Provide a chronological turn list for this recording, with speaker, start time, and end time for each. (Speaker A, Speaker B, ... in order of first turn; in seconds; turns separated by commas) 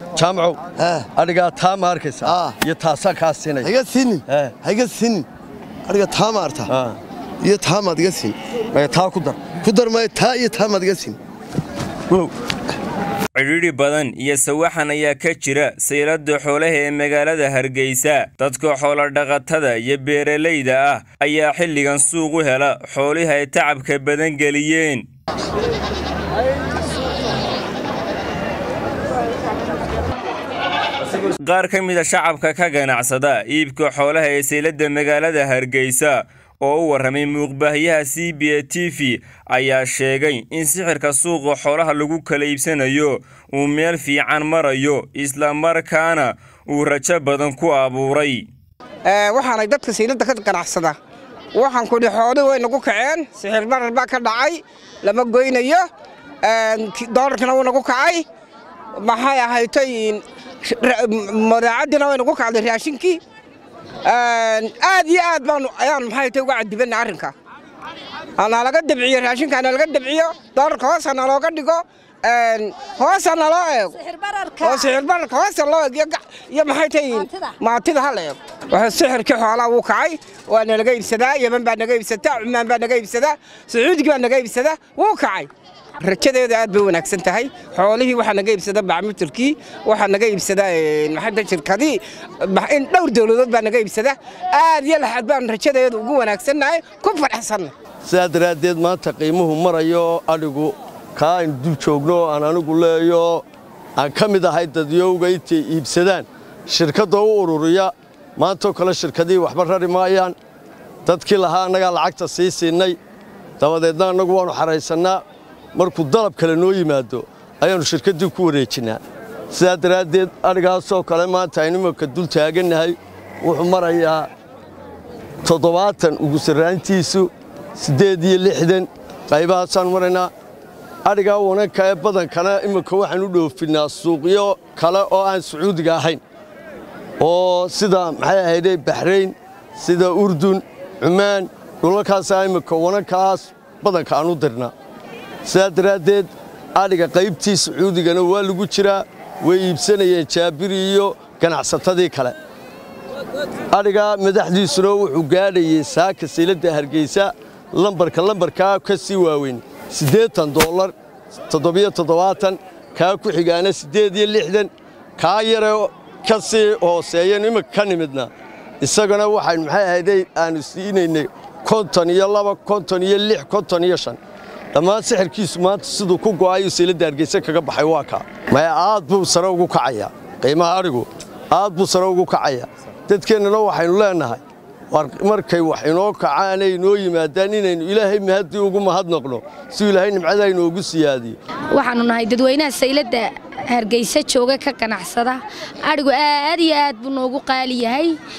Speaker A: 0.2-4.6, Speaker B: 0.8-1.1, Speaker B: 2.3-2.6, Speaker B: 3.6-5.3, Speaker B: 5.9-6.7, Speaker A: 6.6-7.0, Speaker B: 7.4-8.4, Speaker A: 8.7-9.6, Speaker B: 9.6-11.2, Speaker C: 13.4-25.0, Speaker C: 31.2-48.5, Speaker D: 49.0-51.0, Speaker D: 51.5-55.9, Speaker D: 56.4-58.3, Speaker D: 59.0-63.2, Speaker D: 64.0-67.3, Speaker D: 68.4-97.7, Speaker A: 98.0-103.5, Speaker A: 104.0-110.4, Speaker A: 111.1-113.0, Speaker A: 113.6-115.2, Speaker A: 115.8-124.3, Speaker A: 125.4-130.3, Speaker A: 131.1-136.2, Speaker A: 137.2-144.7, Speaker A: 145.4-152.4, Speaker A: 153.7-160.9, Speaker A: 161.5-174.2, Speaker A: 174.7-191.4, Speaker E: 191.7-198.2